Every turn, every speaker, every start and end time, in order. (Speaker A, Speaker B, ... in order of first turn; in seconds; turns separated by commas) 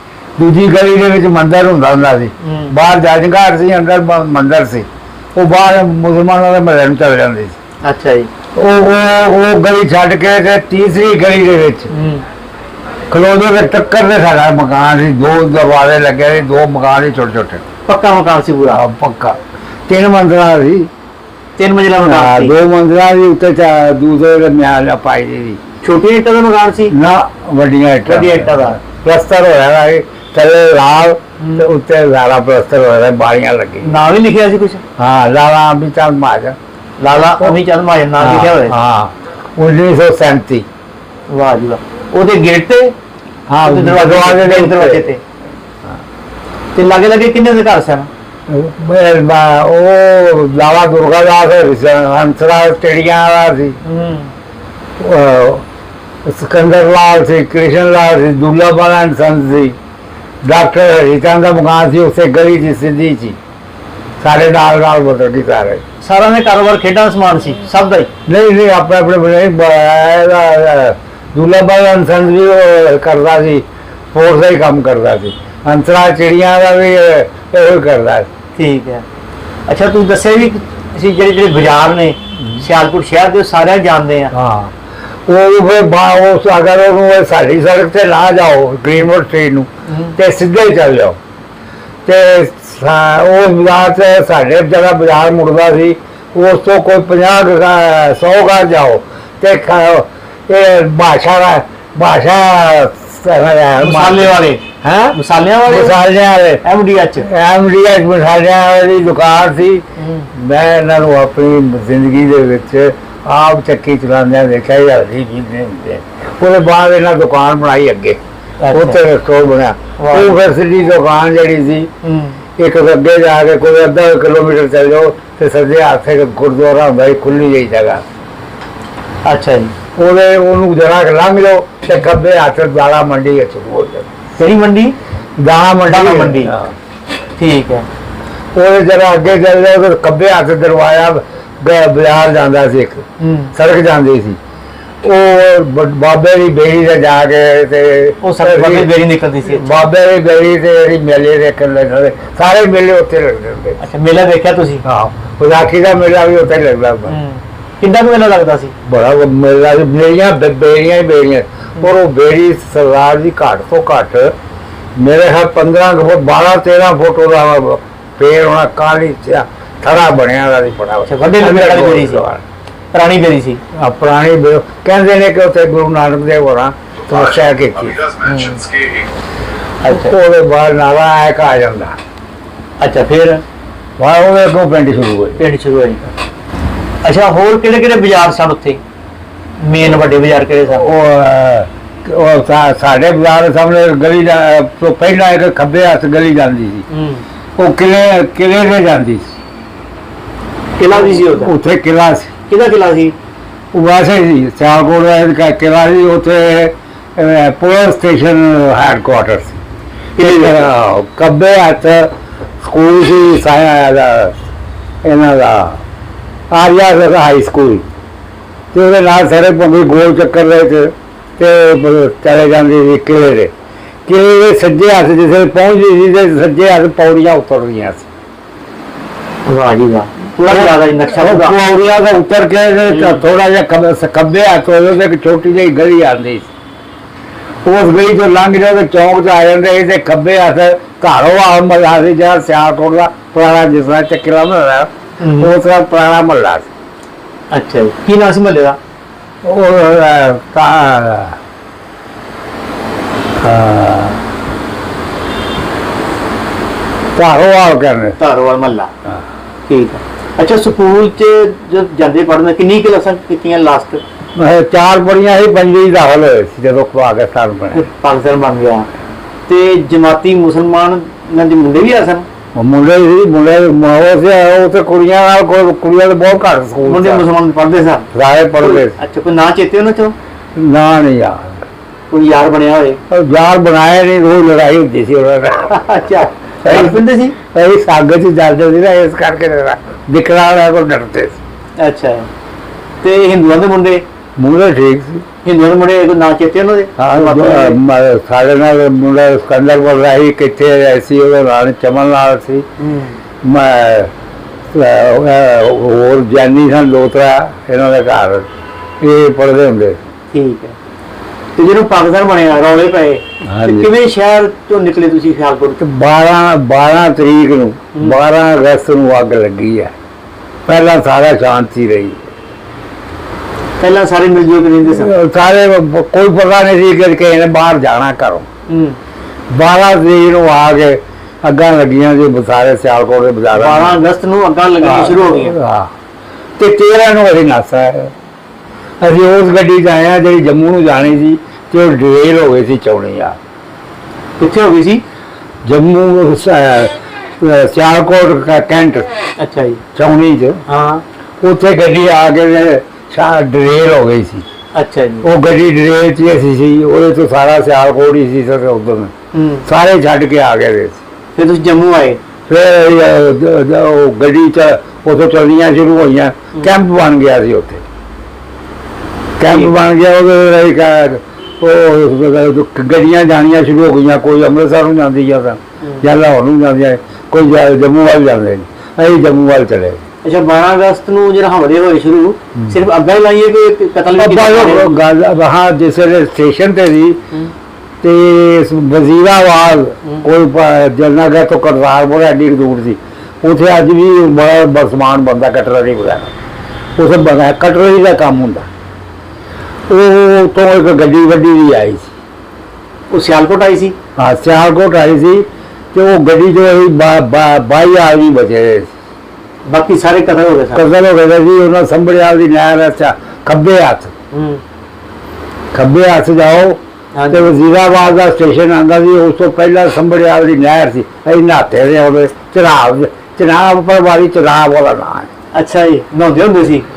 Speaker A: 0.4-7.5, Speaker B: 2.4-2.7, Speaker B: 7.8-8.3, Speaker A: 8.5-11.9, Speaker B: 11.9-12.2, Speaker A: 13.1-17.6, Speaker B: 17.9-18.8, Speaker A: 18.7-20.9, Speaker B: 21.6-22.5, Speaker A: 22.0-25.6, Speaker B: 25.8-26.9, Speaker A: 26.9-34.0, Speaker B: 28.1-28.8, Speaker B: 31.4-31.6, Speaker B: 33.8-34.8, Speaker A: 35.0-36.6, Speaker B: 37.0-38.8, Speaker A: 37.1-37.6, Speaker A: 38.2-40.7, Speaker B: 41.3-42.9, Speaker A: 43.5-45.0, Speaker B: 43.6-45.2, Speaker B: 46.7-48.1, Speaker A: 48.5-53.8, Speaker B: 53.8-54.3, Speaker A: 55.0-55.6, Speaker A: 56.2-59.8, Speaker A: 60.4-63.4, Speaker A: 64.2-65.8, Speaker B: 66.0-68.1, Speaker A: 68.3-78.3, Speaker B: 78.5-79.0, Speaker B: 79.7-84.3, Speaker A: 82.4-82.6, Speaker A: 84.3-91.2, Speaker B: 89.9-90.2, Speaker A: 92.0-104.3, Speaker B: 103.8-106.0, Speaker A: 105.6-106.6, Speaker B: 106.6-107.3, Speaker A: 107.2-118.2, Speaker B: 110.0-110.3, Speaker B: 118.6-119.0, Speaker A: 118.7-121.9, Speaker B: 120.0-120.4, Speaker B: 122.0-122.4, Speaker A: 122.6-128.0, Speaker B: 129.2-129.7, Speaker A: 129.9-134.2, Speaker B: 134.4-134.9, Speaker A: 135.4-136.7, Speaker B: 135.9-136.5, Speaker B: 137.4-137.9, Speaker A: 138.5-144.4, Speaker B: 143.2-143.5, Speaker A: 145.0-148.9, Speaker B: 148.2-149.8, Speaker A: 149.4-153.8, Speaker B: 153.8-154.8, Speaker A: 154.8-157.2, Speaker B: 157.1-158.7, Speaker A: 158.8-164.3, Speaker A: 164.9-172.4, Speaker B: 171.1-172.2, Speaker B: 172.9-173.6, Speaker A: 173.7-178.2, Speaker B: 178.2-178.7, Speaker B: 179.8-180.2, Speaker A: 179.9-181.9, Speaker B: 182.8-183.4, Speaker A: 184.0-185.4, Speaker B: 185.4-186.0, Speaker B: 187.0-188.8, Speaker B: 189.6-190.8, Speaker A: 190.7-196.8, Speaker B: 196.9-197.2, Speaker A: 197.6-199.3, Speaker B: 200.8-201.5, Speaker A: 200.9-202.3, Speaker B: 202.5-203.1, Speaker A: 203.7-209.6, Speaker B: 210.2-210.7, Speaker A: 210.2-214.4, Speaker A: 215.0-215.8, Speaker A: 216.5-217.8, Speaker A: 218.7-223.5, Speaker A: 224.1-228.1, Speaker B: 229.4-231.6, Speaker A: 230.5-236.5, Speaker B: 232.9-233.2, Speaker A: 237.6-246.7, Speaker B: 245.2-245.5, Speaker B: 247.5-248.8, Speaker A: 249.4-251.4, Speaker A: 253.4-254.2, Speaker A: 257.1-258.2, Speaker B: 258.2-258.9, Speaker B: 259.7-264.0, Speaker A: 264.4-267.9, Speaker B: 267.7-268.9, Speaker B: 269.5-272.2, Speaker A: 272.5-277.2, Speaker B: 276.8-278.1, Speaker A: 278.1-278.9, Speaker B: 278.6-280.1, Speaker A: 280.5-281.6, Speaker B: 282.1-283.0, Speaker A: 283.1-285.8, Speaker B: 285.7-287.4, Speaker A: 286.6-291.4, Speaker B: 291.8-292.3, Speaker B: 293.0-294.0, Speaker A: 294.4-295.2, Speaker B: 295.4-297.8, Speaker A: 297.0-302.6, Speaker B: 302.8-303.2, Speaker A: 303.4-304.1, Speaker A: 304.7-308.5, Speaker A: 309.0-310.0, Speaker B: 310.3-310.8, Speaker B: 311.6-315.8, Speaker A: 313.4-313.9, Speaker A: 315.8-319.9, Speaker A: 320.7-322.3, Speaker B: 323.8-325.1, Speaker A: 324.9-328.5, Speaker B: 328.7-329.0, Speaker A: 329.5-334.0, Speaker B: 333.5-335.6, Speaker A: 334.8-335.9, Speaker A: 336.6-338.1, Speaker A: 339.0-343.4, Speaker B: 344.4-345.0, Speaker A: 345.6-349.2, Speaker B: 349.4-349.8, Speaker A: 349.9-350.6, Speaker B: 350.7-351.0, Speaker A: 351.4-354.4, Speaker B: 354.7-355.2, Speaker A: 355.2-359.1, Speaker B: 359.3-359.7, Speaker A: 359.6-361.0, Speaker B: 361.4-362.2, Speaker A: 362.5-367.8, Speaker A: 369.4-380.0, Speaker B: 369.5-369.7, Speaker B: 380.2-385.0, Speaker A: 384.1-387.2, Speaker A: 388.0-396.3, Speaker A: 396.9-398.7, Speaker A: 399.9-402.1, Speaker B: 403.1-403.9, Speaker A: 404.1-408.9, Speaker B: 409.6-410.8, Speaker A: 410.7-414.1, Speaker B: 414.3-414.6, Speaker A: 415.7-425.3, Speaker B: 417.1-417.5, Speaker B: 425.5-426.9